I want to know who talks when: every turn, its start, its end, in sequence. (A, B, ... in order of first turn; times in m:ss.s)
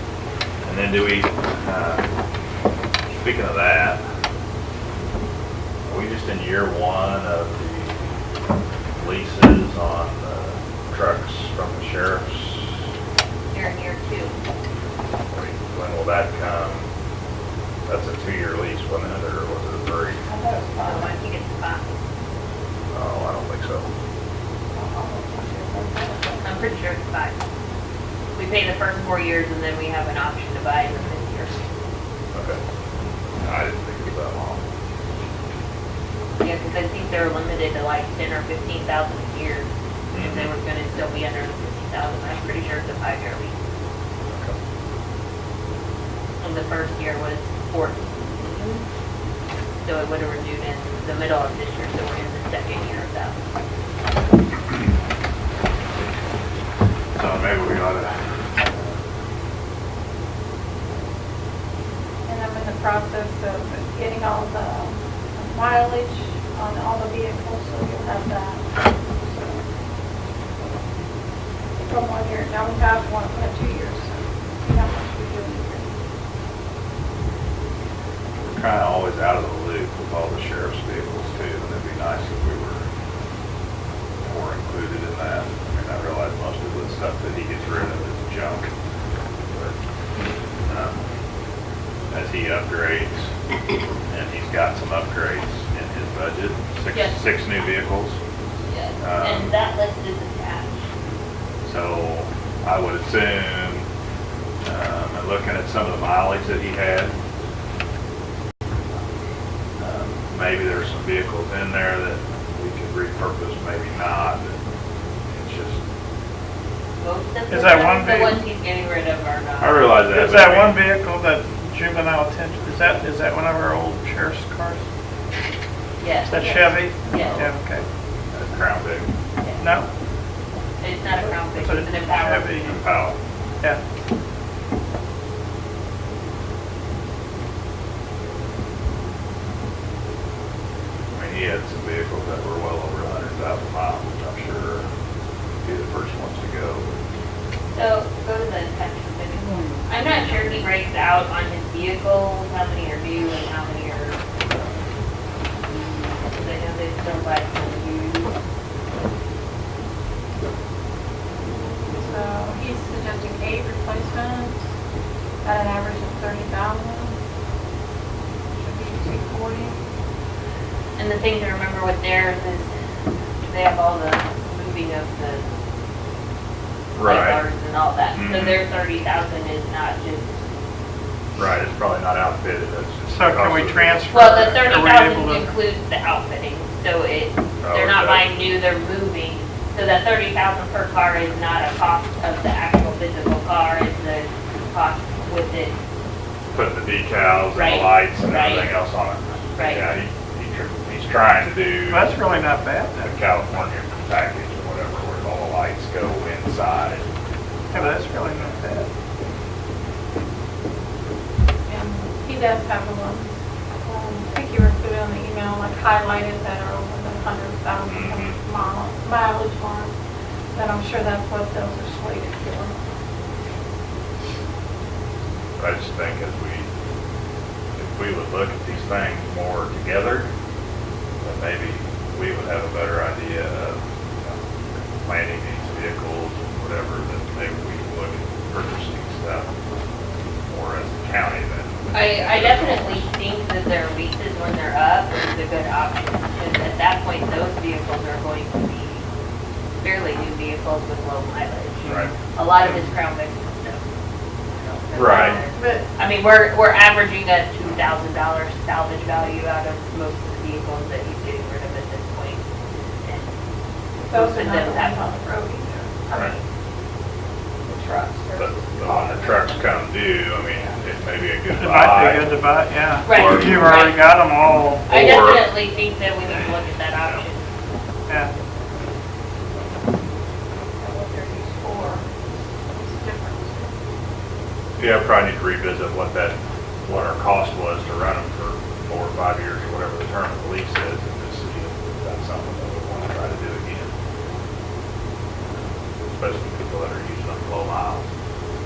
0:00.6-0:02.1 A
0:03.1-0:04.0 A
0:05.8-0:08.0 A
0:09.0-0:12.7 A
0:13.5-0:14.4 B
0:15.3-0:16.9 A
0:17.9-0:20.2 A
0:20.2-0:21.2 C
0:20.8-0:22.0 B
0:22.9-0:23.9 A
0:24.7-0:26.5 C
0:26.4-0:27.4 B
0:28.3-0:31.6 B
0:32.3-0:32.6 A
0:33.4-0:34.6 A
0:36.4-0:43.6 B
0:40.1-0:40.5 A
0:44.3-0:44.6 A
0:46.4-0:48.8 B
0:49.8-0:53.4 B
0:57.1-0:59.0 A
1:02.3-1:09.6 C
1:11.8-1:15.9 C
1:18.4-1:22.8 A
1:24.2-1:28.7 A
1:29.5-1:29.8 A
1:30.7-1:31.0 A
1:32.1-1:33.3 A
1:34.1-1:38.2 A
1:36.9-1:37.2 B
1:38.7-1:40.8 B
1:39.0-1:39.5 A
1:41.6-1:43.9 A
1:44.6-1:47.2 A
1:49.8-1:54.6 A
1:55.3-1:55.8 A
1:57.0-1:59.9 B
1:57.5-1:58.4 D
1:59.6-2:00.9 A
2:00.1-2:04.8 D
2:06.0-2:07.4 B
2:06.3-2:07.8 D
2:08.3-2:09.1 A
2:09.6-2:09.9 D
2:10.8-2:12.8 B
2:11.5-2:12.8 D
2:12.6-2:13.2 A
2:21.1-2:24.9 A
2:25.6-2:26.9 A
2:27.7-2:34.2 B
2:35.7-2:38.3 B
2:41.8-2:44.6 C
2:45.4-2:47.2 C
2:48.6-2:49.8 C
2:51.0-2:52.7 B
2:53.4-2:55.5 B
2:57.0-2:57.4 A
2:57.0-3:00.4 B
2:58.1-2:58.6 A
3:01.4-3:04.1 A
3:03.1-3:05.5 D
3:04.1-3:15.7 B
3:07.6-3:08.2 A
3:16.5-3:22.1 A
3:17.5-3:18.7 B
3:19.6-3:20.0 B
3:21.9-3:23.3 D
3:23.0-3:27.1 A
3:27.7-3:28.9 D
3:27.8-3:28.6 A
3:31.7-3:33.3 C
3:33.8-3:39.9 C
3:37.9-3:38.4 A
3:40.5-3:42.8 C
3:45.6-3:46.7 A
3:47.8-3:50.3 A
3:51.2-3:54.4 A
3:55.0-3:59.5 A
4:00.5-4:03.0 A
4:01.9-4:09.0 B
4:09.8-4:13.8 B
4:11.8-4:12.1 D
4:11.8-4:12.1 A
4:14.5-4:22.4 B
4:14.9-4:15.9 C
4:15.0-4:15.4 A
4:23.0-4:23.3 B
4:24.0-4:26.4 C
4:24.0-4:25.0 B
4:26.1-4:26.4 A
4:27.6-4:29.8 C
4:28.3-4:32.3 A
4:31.6-4:34.9 D
4:33.0-4:34.2 B
4:33.1-4:33.8 A
4:34.8-4:35.5 A
4:34.9-4:37.4 B
4:38.1-4:38.3 D
4:40.8-4:42.1 C
4:42.7-4:43.7 C
4:44.8-4:53.9 A
4:55.5-4:58.1 A